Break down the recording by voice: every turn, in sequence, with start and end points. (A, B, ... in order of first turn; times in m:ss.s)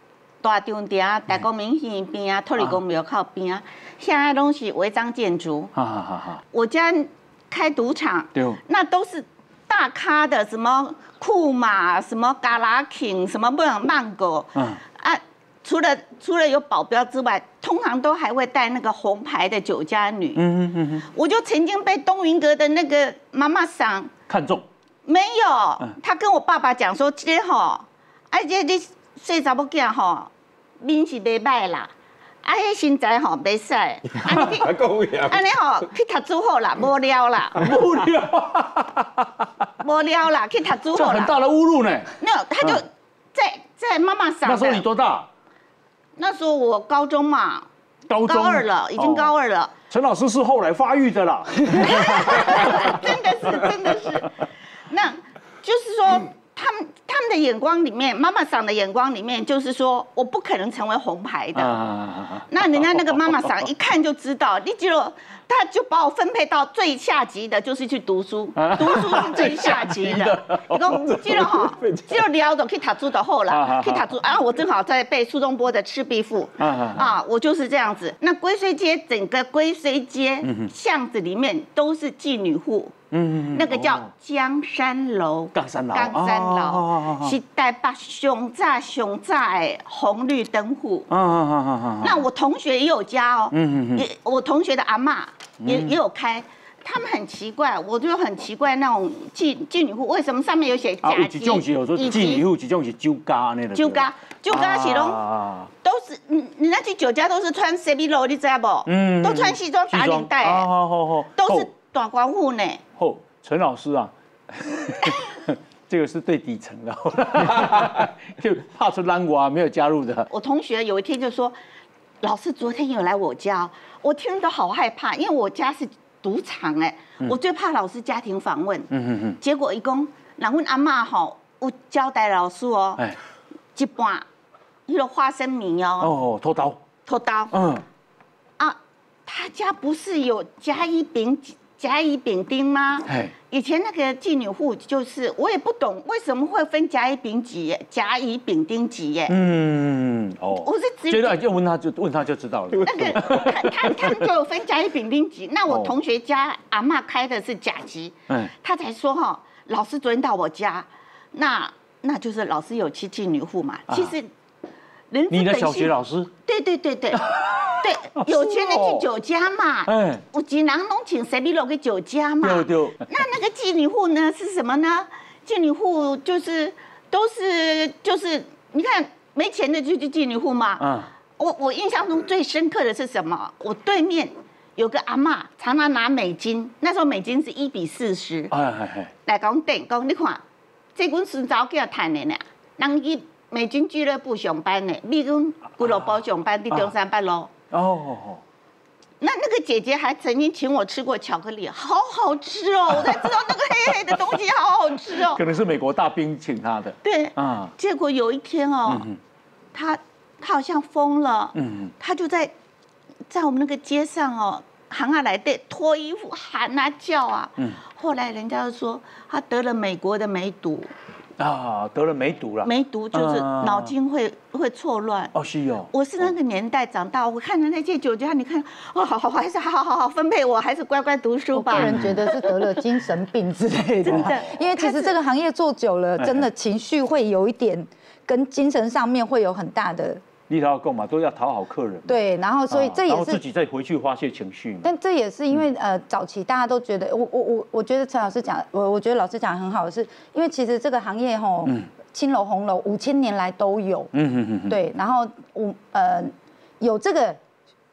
0:00.4-0:05.7 A
0:05.8-0:06.4 B
0:06.5-0:24.1 A
0:08.4-0:08.6 B
0:14.6-0:14.8 B
0:20.4-0:21.1 B
0:24.3-0:24.7 B
0:25.0-0:31.9 A
0:32.4-0:37.6 A
0:37.6-0:39.4 B
0:39.8-0:41.4 A
0:40.9-0:42.8 B
0:42.2-0:44.8 A
0:44.4-0:45.3 B
0:46.2-0:47.7 A
0:48.1-0:49.3 B
0:48.2-0:49.7 A
0:49.9-0:54.2 B
0:51.8-1:01.8 A
1:01.6-1:03.2 B
1:02.5-1:23.0 A
1:08.6-1:12.1 B
1:13.5-1:14.1 B
1:16.6-1:17.1 B
1:20.4-1:20.7 B
1:23.1-1:24.1 B
1:23.5-1:31.1 A
1:25.5-1:27.4 B
1:31.1-1:32.3 B
1:32.0-1:42.4 A
1:33.5-1:34.1 B
1:35.6-1:36.0 B
1:41.0-1:45.7 B
1:43.7-1:45.2 A
1:45.8-1:50.7 A
1:48.9-1:51.7 B
1:51.4-1:52.8 A
1:53.0-2:00.3 B
2:00.3-2:01.6 A
2:02.2-2:08.9 A
2:08.9-2:09.4 B
2:09.4-2:13.1 A
2:13.8-2:14.3 A
2:14.9-2:16.1 A
2:16.0-2:16.8 B
2:17.1-2:17.6 A
2:17.5-2:17.8 B
2:18.6-2:29.4 A
2:23.1-2:23.3 B
2:29.3-2:34.3 B
2:30.6-2:31.4 A
2:32.8-2:44.3 A
2:35.7-2:36.0 B
2:43.9-2:44.2 B
2:45.1-2:45.9 A
2:45.3-2:46.3 B
2:46.4-3:00.9 A
2:47.1-2:49.1 B
2:49.9-2:50.2 B
2:52.4-2:53.1 B
3:00.8-3:01.1 B
3:01.4-3:08.6 A
3:08.5-3:09.1 B
3:09.2-3:10.4 A
3:11.0-3:17.5 A
3:17.7-3:18.4 B
3:19.2-3:25.4 A
3:25.2-3:27.7 B
3:27.0-3:29.1 A
3:28.9-3:29.2 B
3:29.7-3:32.5 A
3:31.6-3:31.9 B
3:33.3-3:40.9 A
3:41.4-3:43.9 B
3:42.6-3:45.3 A
3:45.3-3:45.9 B
3:45.9-3:52.5 A
3:51.5-4:00.2 C
3:51.7-3:52.1 B
3:54.0-3:55.2 A
3:56.2-3:56.5 B
4:00.5-4:04.9 B
4:02.1-4:03.4 C
4:04.8-4:14.1 C
4:14.1-4:14.8 B
4:14.7-4:17.4 C